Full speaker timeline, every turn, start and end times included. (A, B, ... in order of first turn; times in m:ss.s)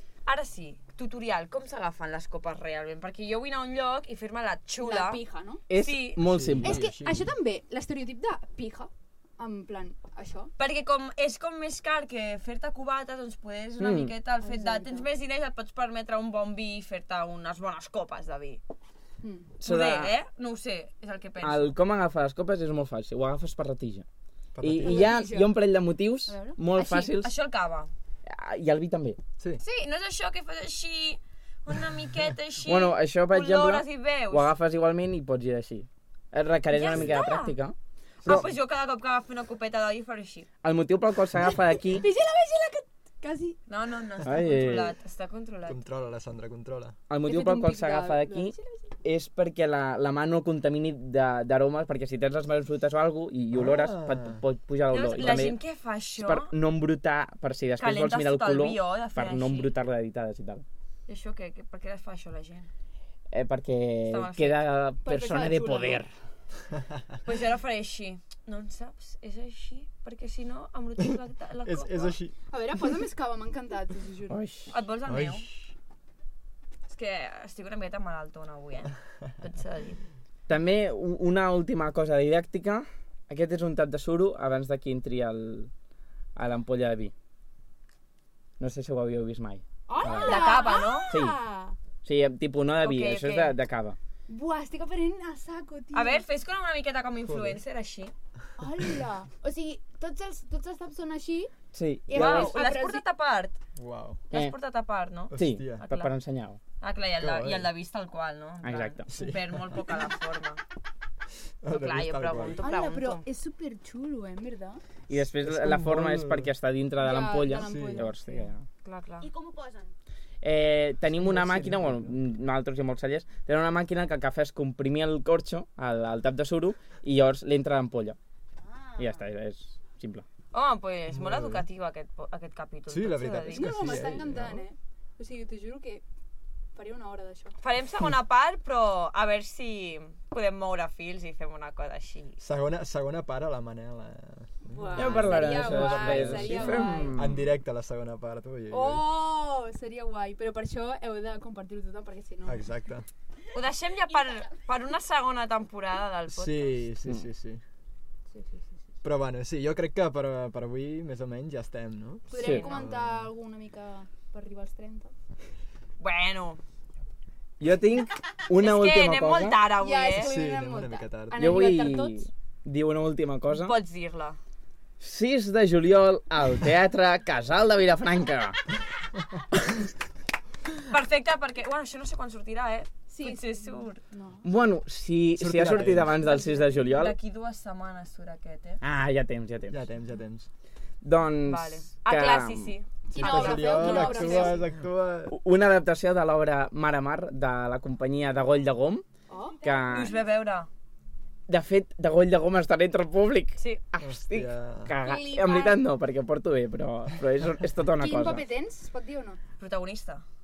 0:00.3-0:06.2 A
0:04.8-0:05.6 B
0:05.7-0:06.8 C
0:06.2-0:07.3 D
0:06.6-0:10.5 B
0:10.6-0:18.6 A
0:13.8-0:14.1 C
0:14.4-0:15.1 B
0:19.2-0:19.5 B
0:19.6-0:20.1 C
0:19.6-0:21.8 A
0:21.4-0:24.0 C
0:24.6-0:25.1 D
0:24.6-0:27.3 C
0:24.8-0:25.6 B
0:26.3-0:26.6 B
0:26.8-0:27.9 A
0:28.3-0:29.2 C
0:29.6-0:34.5 A
0:32.7-0:38.5 C
0:36.7-0:37.6 A
0:38.2-0:40.5 A
0:40.6-0:42.1 C
0:41.8-0:43.6 B
0:43.7-0:45.8 A
0:44.2-0:44.9 C
0:45.7-0:47.0 D
0:47.1-0:55.6 C
0:47.2-0:49.0 B
0:53.5-0:54.4 D
0:54.9-0:56.5 A
0:56.2-1:00.6 C
0:57.8-0:59.7 A
1:01.1-1:02.7 A
1:03.3-1:06.1 C
1:04.1-1:04.7 A
1:05.0-1:06.0 B
1:07.2-1:12.2 A
1:11.6-1:12.4 D
1:12.5-1:14.4 B
1:14.3-1:14.7 C
1:14.7-1:15.5 A
1:15.1-1:15.5 D
1:16.9-1:20.0 A
1:20.5-1:25.7 C
1:26.4-1:27.1 C
1:28.6-1:31.4 C
1:29.9-1:31.8 B
1:30.2-1:31.1 A
1:32.0-1:34.0 C
1:32.8-1:33.5 A
1:34.3-1:36.2 B
1:35.9-1:38.1 A
1:37.2-1:37.6 D
1:38.6-1:41.5 B
1:41.7-1:42.5 C
1:42.1-1:43.0 B
1:42.1-1:43.6 A
1:43.8-1:44.2 D
1:44.3-1:46.1 A
1:45.3-1:45.8 D
1:45.4-1:46.6 C
1:46.8-1:50.6 A
1:47.2-1:47.7 D
1:48.6-1:49.1 C
1:49.1-1:49.9 D
1:51.6-1:52.6 D
1:51.7-1:53.2 A
1:52.6-1:54.8 B
1:55.1-1:58.6 C
1:55.2-1:56.5 D
1:57.0-1:58.5 B
1:57.6-1:58.1 D
1:58.8-1:59.3 A
1:59.2-1:59.9 E
2:00.4-2:08.2 C
2:01.1-2:02.1 D
2:08.6-2:09.2 E
2:09.0-2:10.2 C
2:10.5-2:14.0 A
2:11.1-2:11.6 D
2:12.9-2:14.6 D
2:13.5-2:16.0 B
2:16.8-2:17.6 B
2:17.6-2:22.4 A
2:22.4-2:29.1 D
2:24.6-2:27.2 B
2:25.0-2:27.6 C
2:25.6-2:26.1 A
2:28.7-2:32.7 B
2:32.4-2:33.1 D
2:33.5-2:36.9 A
2:34.2-2:34.5 E
2:36.3-2:37.6 D
2:38.3-2:38.7 B
2:39.0-2:43.3 D
2:42.3-2:45.1 B
2:42.4-2:42.7 C
2:42.4-2:42.7 A
2:46.0-2:46.6 A
2:47.6-2:49.6 C
2:48.6-2:50.3 A
2:49.8-2:52.3 B
2:50.2-2:51.6 D
2:51.4-2:53.8 C
2:53.5-2:54.4 A
2:55.0-2:58.6 C
3:00.8-3:04.0 A
3:03.1-3:04.5 B
3:04.4-3:07.2 C
3:05.4-3:06.2 D
3:06.2-3:06.7 B
3:06.4-3:08.8 A
3:08.8-3:09.8 C
3:09.7-3:10.5 D
3:11.0-3:12.8 C
3:11.4-3:14.6 A
3:13.1-3:14.7 B
3:13.2-3:15.4 D
3:15.3-3:19.0 C
3:19.3-3:19.6 B
3:19.6-3:19.9 E
3:19.6-3:20.2 C
3:19.9-3:20.7 A
3:21.5-3:28.4 C
3:24.0-3:24.9 D
3:25.0-3:25.8 B
3:28.0-3:29.4 B
3:29.6-3:30.2 A